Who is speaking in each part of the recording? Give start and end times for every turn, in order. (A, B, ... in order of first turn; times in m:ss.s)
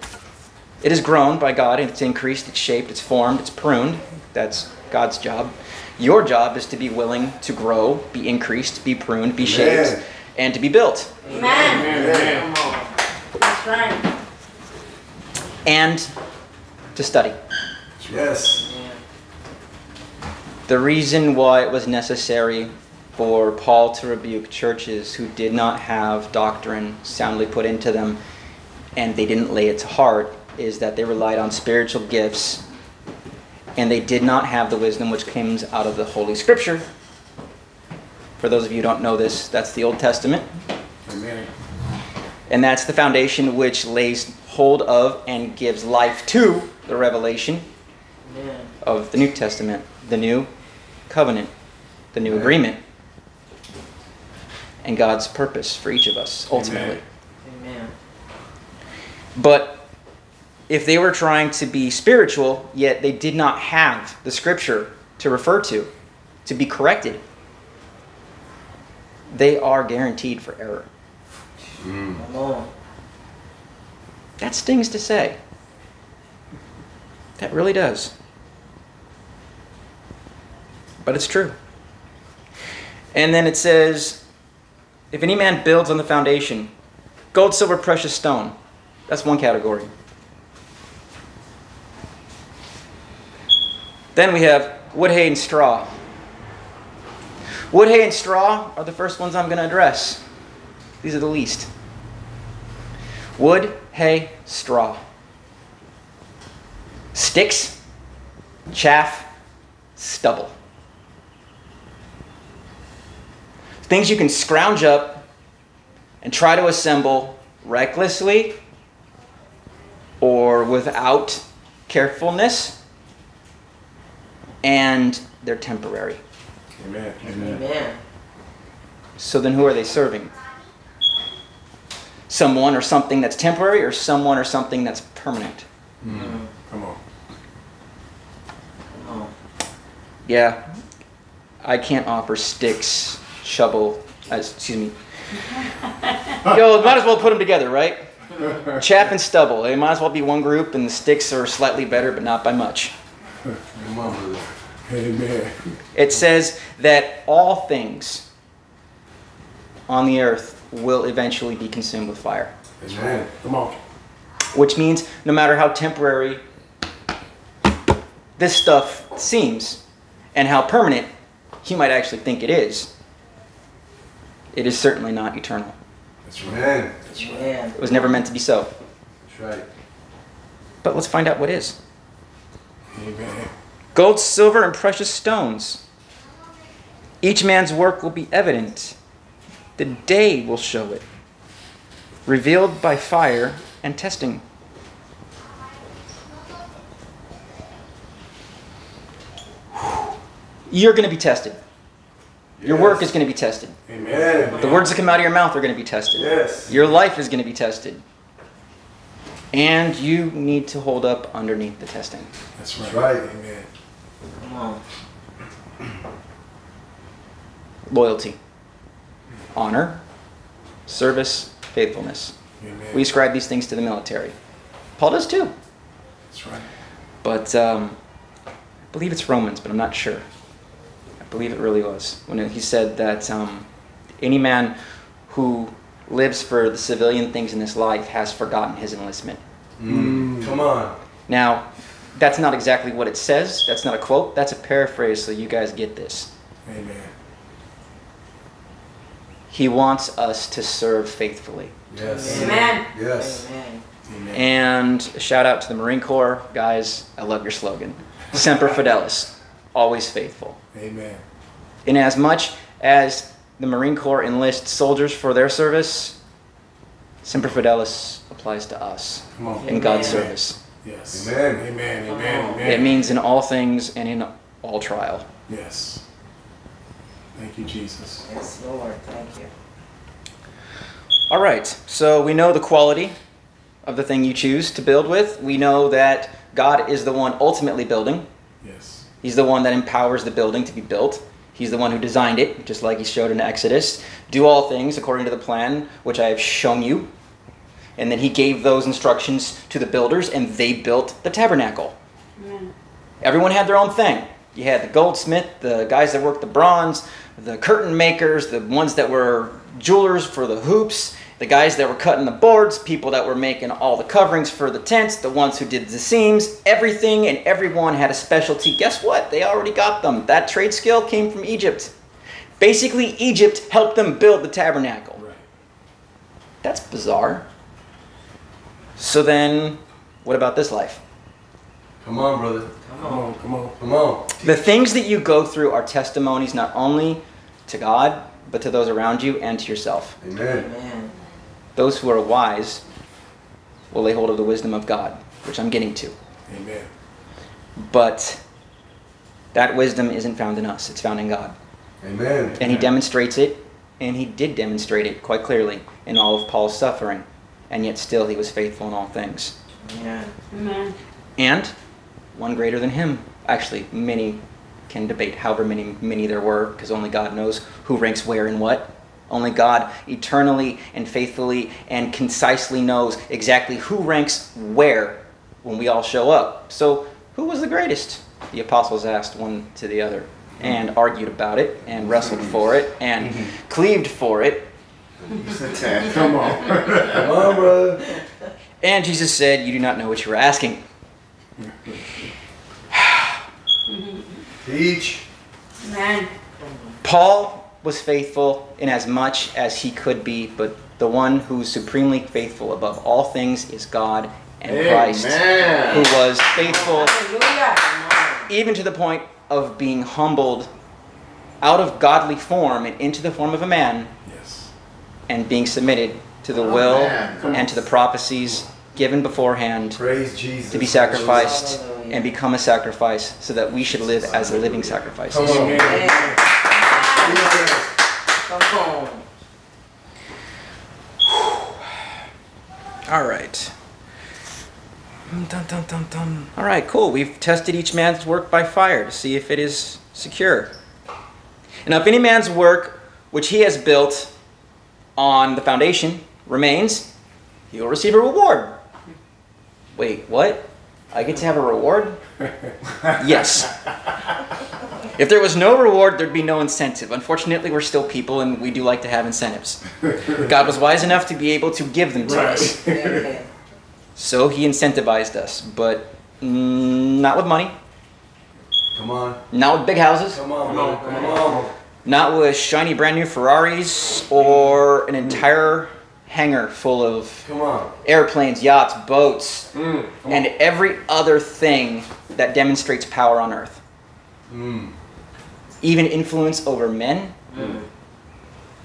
0:00.8-0:11.1 A
0:09.4-0:10.0 B
0:11.2-0:12.9 C
0:11.3-0:11.9 D
0:11.6-0:12.5 E
0:11.8-0:12.4 B
0:13.4-0:14.0 D
0:15.6-0:16.1 A
0:16.9-0:17.4 A
0:18.0-0:18.2 E
0:18.1-0:18.6 B
0:18.6-0:19.0 C
0:20.7-0:28.2 A
0:28.9-0:32.6 A
0:33.8-0:36.8 A
0:38.4-0:40.5 A
0:41.0-0:41.5 E
0:42.5-0:47.6 A
0:48.2-0:48.7 C
0:48.8-0:50.5 A
0:51.1-0:51.5 A
0:52.1-0:52.8 A
0:52.2-0:52.6 B
0:54.8-0:57.0 A
0:56.5-0:57.0 E
0:57.4-0:57.9 C
0:59.3-0:59.8 A
1:00.7-1:05.9 A
1:06.4-1:07.2 A
1:09.3-1:10.9 A
1:11.8-1:12.2 B
1:12.2-1:12.7 C
1:14.4-1:15.4 A
1:17.4-1:18.1 A
1:21.0-1:21.6 A
1:23.1-1:24.2 A
1:25.1-1:26.7 A
1:27.3-1:28.5 A
1:29.1-1:29.9 A
1:34.1-1:35.9 A
1:37.7-1:40.2 A
1:41.0-1:41.7 A
1:43.4-1:45.0 A
1:47.1-1:47.8 A
1:48.7-1:49.3 A
1:50.0-1:50.5 A
1:53.8-1:55.2 A
1:56.2-1:58.6 A
2:00.2-2:02.8 A
2:04.6-2:06.2 A
2:06.8-2:07.5 E
2:07.2-2:08.0 C
2:07.3-2:07.6 B
2:09.2-2:10.3 A
2:12.3-2:15.6 A
2:16.0-2:16.3 B
2:16.0-2:17.0 E
2:16.1-2:16.5 C
2:18.9-2:19.3 C
2:20.2-2:20.6 A
2:21.6-2:24.9 A
2:26.4-2:32.9 A
2:33.7-2:34.5 B
2:34.9-2:35.7 E
2:35.9-2:38.3 A
2:39.9-2:42.5 A
2:42.8-2:43.3 B
2:42.8-2:43.8 E
2:44.5-2:46.4 A
2:48.4-2:49.8 A
2:50.3-2:51.1 A
2:51.6-2:52.9 A
2:54.5-2:55.8 A
2:56.2-2:57.4 E
2:56.4-2:56.9 B
2:57.1-2:57.8 C
2:57.7-2:58.7 A
2:59.2-2:59.6 B
3:00.8-3:01.8 A
3:02.9-3:03.5 E
3:03.9-3:05.8 A
3:07.2-3:09.0 A
3:09.8-3:11.0 A
3:12.2-3:14.4 A
3:20.7-3:21.6 A
3:22.6-3:23.0 B
3:22.6-3:23.8 A
3:23.9-3:24.9 E
3:24.0-3:24.8 B
3:24.6-3:28.0 A
3:26.1-3:26.7 B
3:29.5-3:32.3 A
3:32.6-3:33.7 E
3:32.8-3:33.3 B
3:34.4-3:34.8 C
3:37.9-3:38.4 A
3:39.5-3:40.0 A
3:40.9-3:42.3 A
3:42.6-3:43.0 E
3:42.9-3:44.3 A
3:45.0-3:45.5 A
3:46.3-3:46.7 E
3:47.2-3:48.0 A
3:48.9-3:50.2 A
3:51.2-3:53.7 A
3:54.2-3:54.7 A
3:55.3-3:59.4 A
3:59.8-4:00.9 B
3:59.8-4:00.6 E
4:01.3-4:06.3 A
4:06.6-4:07.1 E
4:09.5-4:11.7 A
4:11.9-4:13.4 B
4:12.0-4:13.8 C
4:12.3-4:12.9 D
4:14.1-4:14.4 E
4:14.3-4:20.6 A
4:20.7-4:21.2 E
4:21.8-4:26.2 A
4:27.2-4:30.6 A
4:29.3-4:30.3 E
4:29.6-4:30.3 C
4:30.8-4:33.0 E
4:31.1-4:31.6 B
4:32.0-4:33.0 C
4:32.6-4:35.3 A
4:35.5-4:36.0 E
4:37.3-4:38.2 E
4:38.2-4:39.5 C
4:41.3-4:43.1 A
4:43.8-4:48.2 A
4:48.6-4:49.0 E
4:49.2-4:57.1 A
4:58.0-5:01.9 A
5:02.4-5:02.7 D
5:03.2-5:21.9 A
5:22.6-5:25.2 A
5:25.2-5:25.4 E
5:26.6-5:27.4 A
5:29.0-5:31.0 A
5:32.0-5:32.7 B
5:32.8-5:33.2 C
5:33.0-5:33.7 E
5:33.8-5:34.6 B
5:34.4-5:40.1 A
5:40.2-5:40.7 B
5:40.4-5:41.1 C
5:41.8-5:42.8 A
5:43.9-5:46.1 A
5:46.5-5:46.9 E
5:47.8-5:48.4 A
5:49.5-5:51.5 A
5:52.0-5:52.8 B
5:52.6-5:59.5 A
5:59.8-6:00.3 C
6:00.5-6:00.9 D
6:01.4-6:01.7 A
6:02.3-6:24.7 A
6:22.0-6:23.5 B
6:25.2-6:28.0 B
6:26.0-6:27.2 E
6:28.8-6:30.8 A
6:31.6-6:32.0 E
6:33.0-6:33.3 A
6:33.8-6:34.4 D
6:34.6-6:35.2 B
6:35.8-6:36.3 D
6:36.6-6:37.0 C
6:37.0-6:47.2 A
6:44.7-6:45.8 B
6:45.5-6:48.5 C
6:46.8-6:47.8 D
6:48.5-6:50.7 A
6:51.6-6:54.1 A
6:54.2-6:54.7 E
6:55.3-7:00.0 A
6:56.8-6:57.4 B
6:57.3-6:57.7 E
7:00.0-7:01.6 B
7:00.7-7:05.8 A
7:01.1-7:02.3 C
7:04.2-7:06.4 B
7:05.4-7:06.4 E
7:05.8-7:09.2 C
7:06.8-7:07.3 D
7:07.1-7:07.8 B
7:13.1-7:13.7 A
7:15.3-7:20.7 A
7:21.8-7:24.3 A
7:25.2-7:27.1 A
7:27.7-7:28.8 A
7:29.9-7:32.2 A
7:33.0-7:33.7 A
7:35.1-7:42.8 A
7:42.2-7:43.3 E
7:42.8-7:43.4 C
7:44.2-7:47.7 A
7:48.9-7:49.4 B
7:49.5-7:50.4 A
7:50.3-7:51.7 B
7:50.6-7:51.7 E
7:51.0-7:51.5 C
7:52.0-7:57.5 A
7:57.4-7:57.9 B
7:58.0-7:59.7 A
7:59.7-8:00.4 E
8:00.2-8:03.8 A
8:04.5-8:04.9 B
8:05.8-8:07.3 A
8:07.5-8:07.8 C